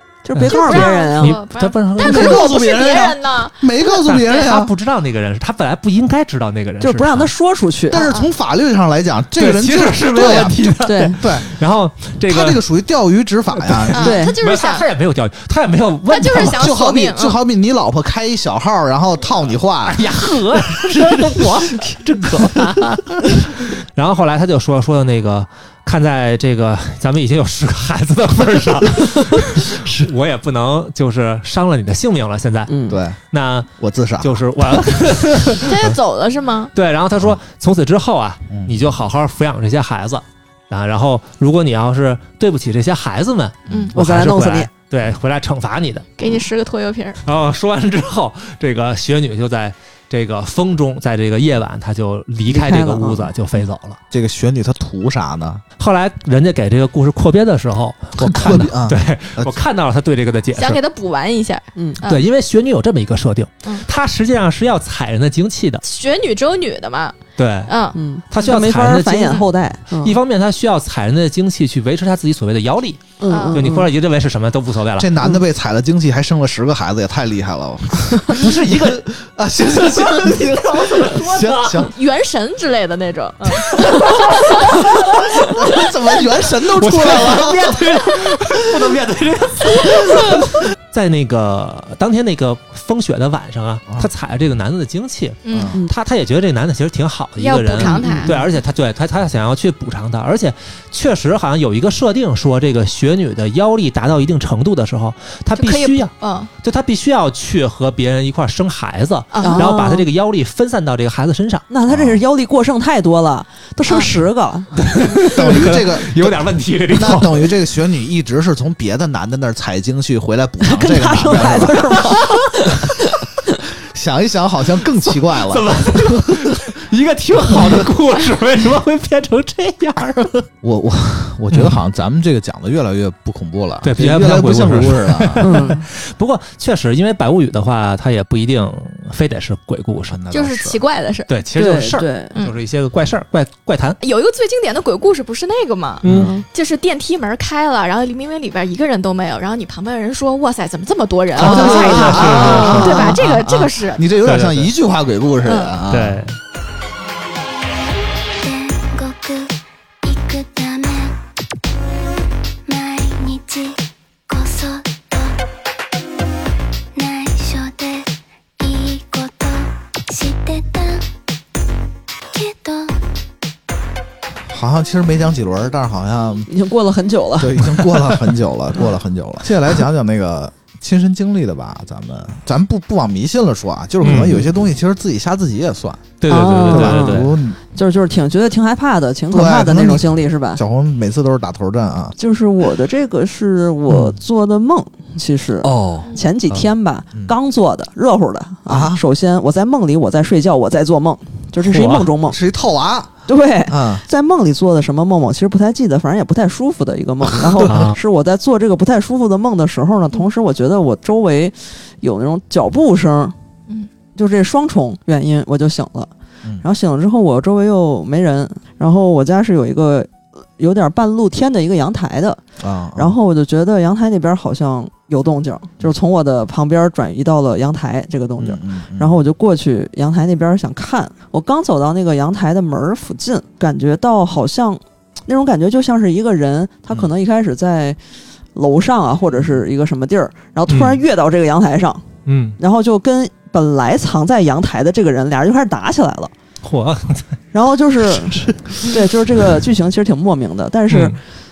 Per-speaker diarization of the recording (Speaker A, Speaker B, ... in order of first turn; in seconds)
Speaker A: 0.2-1.4, 6.8-8.0, 10.8-11.2, 14.0-14.3, 32.7-33.0, 43.9-44.7, 52.5-53.3, 61.8-62.0, 67.9-70.2, 73.2-73.9, 97.8-98.4, 109.4-110.1, 111.7-114.7, 120.6-122.9, 135.4-135.8, 141.6-142.3, 146.1-146.4, 151.7-153.1, 176.5-177.7, 186.3-190.6, 192.2-202.4, 203.3-213.3, 214.2-216.1, 216.6-222.4, 222.9-238.0, 238.5-242.0, 242.6-246.3, 247.5-251.2
Speaker B: 0.3-2.5, 4.0-7.3, 9.4-12.6, 13.5-16.7, 19.9-32.7, 33.3-36.0, 36.7-46.1, 47.2-54.0, 55.8-60.8, 62.0-65.8, 67.4-67.7, 68.3-69.4, 69.9-75.1, 78.3-79.1, 79.7-81.9, 83.7-84.8, 86.7-111.6, 114.8-117.5, 125.3-130.4, 131.5-131.8, 133.8-140.2, 141.3-144.0, 146.0-146.3, 151.3-153.3, 154.2-154.7, 155.9-156.3, 178.0-178.3, 184.0-184.4, 186.2-187.4, 201.6-202.1, 207.6-207.9, 240.7-241.0, 242.2-242.6, 246.6-247.3, 250.9-251.2
Speaker C: 0.4-4.2, 7.9-8.3, 13.9-14.8, 16.1-17.4, 35.6-36.7, 46.2-47.2, 60.5-62.2, 65.8-68.0, 73.3-73.7, 81.8-85.6, 95.4-95.8, 97.4-98.4, 105.5-106.5, 109.3-109.7, 140.3-141.3, 144.0-154.1, 155.4-155.8
Speaker D: 2.0-4.7, 7.9-10.7, 11.2-11.5, 12.2-14.1, 16.4-20.1, 32.9-33.2, 33.8-34.8, 38.5-38.8, 43.7-43.9, 54.1-55.6, 58.2-59.6, 75.0-81.9, 85.3-87.8, 95.5-95.8, 111.9-112.2, 115.2-122.0, 123.8-126.6, 130.6-135.7, 140.1-140.8, 146.0-146.3, 151.3-156.2, 174.5-176.5, 177.4-187.6, 189.3-192.2, 195.6-197.3, 198.7-199.0, 202.3-203.2, 203.7-204.0, 222.6-223.1, 228.4-229.1
Speaker E: 158.4-159.5, 160.0-161.1, 162.7-165.3, 166.9-168.1, 168.6-171.0, 172.3-172.9